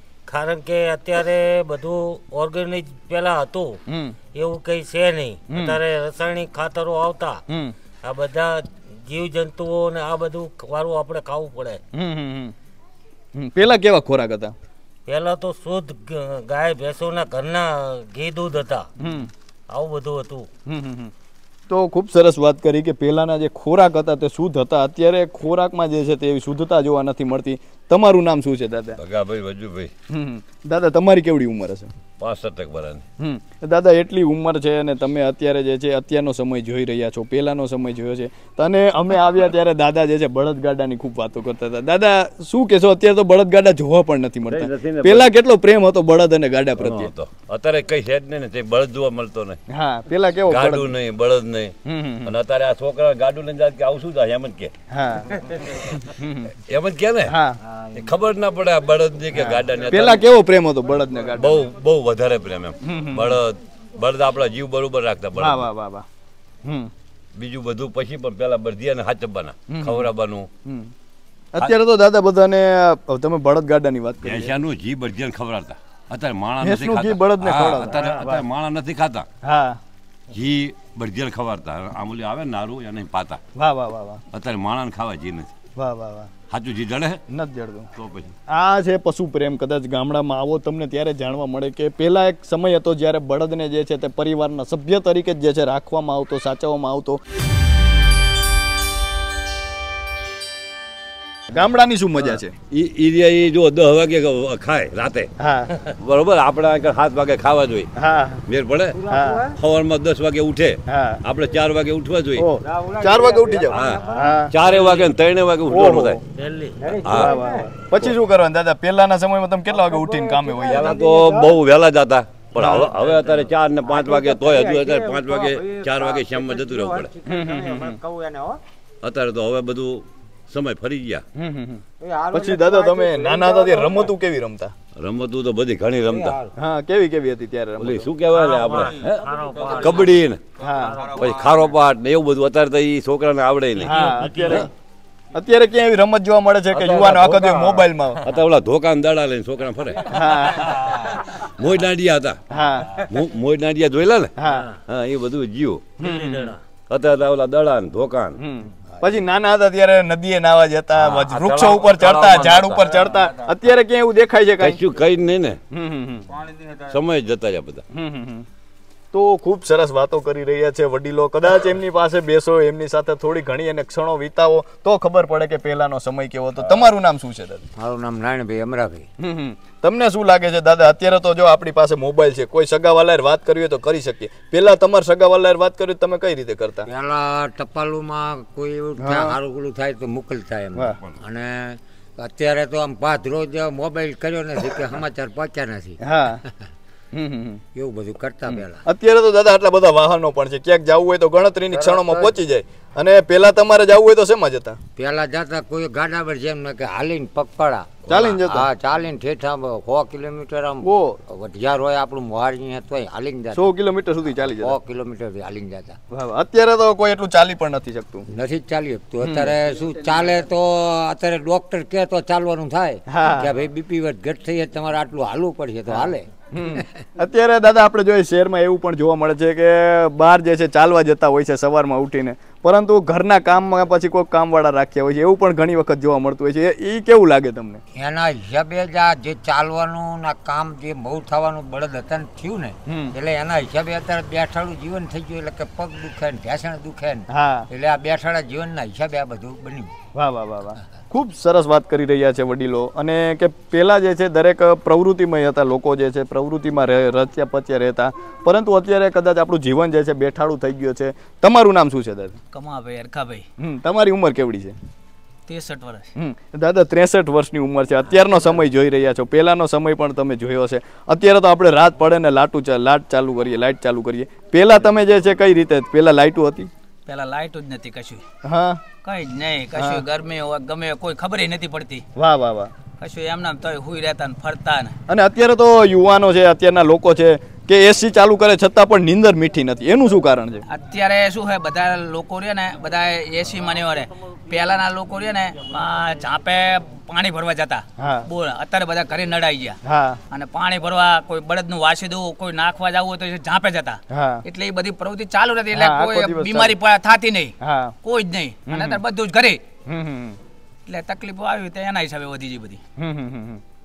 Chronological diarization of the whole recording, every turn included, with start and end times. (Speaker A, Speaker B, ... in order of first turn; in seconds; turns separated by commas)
Speaker A: 0.3-3.8, Speaker B: 3.9-4.2, Speaker A: 4.3-7.4, Speaker B: 5.5-5.8, Speaker A: 8.0-11.8, Speaker B: 11.9-12.5, Speaker B: 13.3-14.5, Speaker A: 15.1-18.9, Speaker B: 19.0-19.3, Speaker A: 19.7-20.5, Speaker B: 20.7-21.1, Speaker B: 21.7-29.0, Speaker C: 29.0-29.9, Speaker B: 30.1-31.9, Speaker C: 32.2-33.0, Speaker B: 33.2-47.1, Speaker C: 44.5-45.3, Speaker C: 46.8-49.6, Speaker B: 49.7-50.9, Speaker C: 50.5-51.7, Speaker B: 51.8-52.3, Speaker C: 52.2-54.7, Speaker B: 54.9-55.3, Speaker B: 56.0-56.5, Speaker C: 56.7-57.3, Speaker B: 57.3-57.6, Speaker C: 57.9-60.2, Speaker B: 59.3-61.4, Speaker C: 61.4-65.7, Speaker B: 62.9-63.4, Speaker B: 65.3-66.0, Speaker B: 66.6-66.9, Speaker C: 67.3-70.5, Speaker B: 69.7-70.1, Speaker B: 70.7-70.9, Speaker B: 71.5-74.5, Speaker C: 74.2-79.3, Speaker B: 76.6-78.4, Speaker B: 79.4-79.8, Speaker C: 80.3-83.4, Speaker B: 83.5-84.2, Speaker C: 84.3-85.5, Speaker B: 85.8-86.3, Speaker C: 86.5-87.2, Speaker B: 87.3-87.8, Speaker C: 88.0-88.3, Speaker B: 88.5-97.2, Speaker B: 101.5-102.5, Speaker C: 102.7-105.3, Speaker B: 105.4-105.7, Speaker C: 105.8-107.9, Speaker B: 108.0-108.4, Speaker C: 108.5-109.0, Speaker B: 109.0-109.5, Speaker C: 109.6-112.5, Speaker B: 110.9-111.2, Speaker B: 112.3-114.5, Speaker C: 113.7-116.2, Speaker B: 115.7-116.2, Speaker A: 116.3-116.8, Speaker C: 116.9-117.4, Speaker B: 117.1-121.1, Speaker C: 120.6-127.1, Speaker B: 122.5-123.0, Speaker B: 127.2-128.0, Speaker C: 129.0-131.2, Speaker B: 131.4-134.7, Speaker C: 135.0-136.4, Speaker B: 136.5-138.1, Speaker C: 137.8-140.4, Speaker A: 138.6-140.0, Speaker B: 140.6-141.1, Speaker C: 141.1-144.6, Speaker B: 143.8-144.7, Speaker B: 145.3-148.3, Speaker C: 146.9-147.6, Speaker C: 148.2-152.4, Speaker B: 150.1-150.8, Speaker B: 152.5-153.0, Speaker C: 153.1-154.3, Speaker B: 154.4-154.7, Speaker C: 154.8-155.9, Speaker B: 156.0-156.5, Speaker A: 156.1-156.5, Speaker C: 156.9-158.4, Speaker B: 158.4-164.8, Speaker C: 160.9-163.0, Speaker C: 164.6-165.6, Speaker B: 165.7-166.3, Speaker C: 166.7-167.8, Speaker B: 167.9-168.4, Speaker B: 169.1-177.7, Speaker D: 177.8-179.1, Speaker B: 179.2-186.9, Speaker D: 186.8-196.0, Speaker B: 189.0-189.4, Speaker B: 196.0-196.4, Speaker B: 197.1-197.6, Speaker D: 197.7-198.8, Speaker B: 198.8-204.8, Speaker D: 201.7-202.3, Speaker D: 205.0-213.7, Speaker B: 208.1-208.7, Speaker B: 210.8-211.2, Speaker B: 213.5-214.8, Speaker D: 214.3-216.0, Speaker B: 216.1-218.2, Speaker D: 218.3-226.2, Speaker B: 219.2-219.6, Speaker B: 223.1-223.5, Speaker B: 225.9-237.8, Speaker D: 237.9-249.9, Speaker B: 242.9-243.1, Speaker B: 247.3-247.7, Speaker B: 250.1-262.4, Speaker E: 262.5-263.4, Speaker B: 263.6-264.7, Speaker E: 265.5-266.1, Speaker B: 266.1-276.7, Speaker E: 277.1-278.2, Speaker B: 278.4-278.8, Speaker E: 279.0-282.0, Speaker B: 279.7-280.0, Speaker B: 282.1-282.7, Speaker E: 283.0-284.9, Speaker B: 285.1-290.6, Speaker E: 290.7-299.8, Speaker B: 298.0-298.3, Speaker B: 299.8-300.2, Speaker E: 300.3-309.6, Speaker B: 304.1-304.4, Speaker B: 305.7-306.7, Speaker B: 307.6-307.9, Speaker B: 308.7-309.0, Speaker B: 309.9-310.4, Speaker E: 310.9-312.8, Speaker B: 313.0-313.6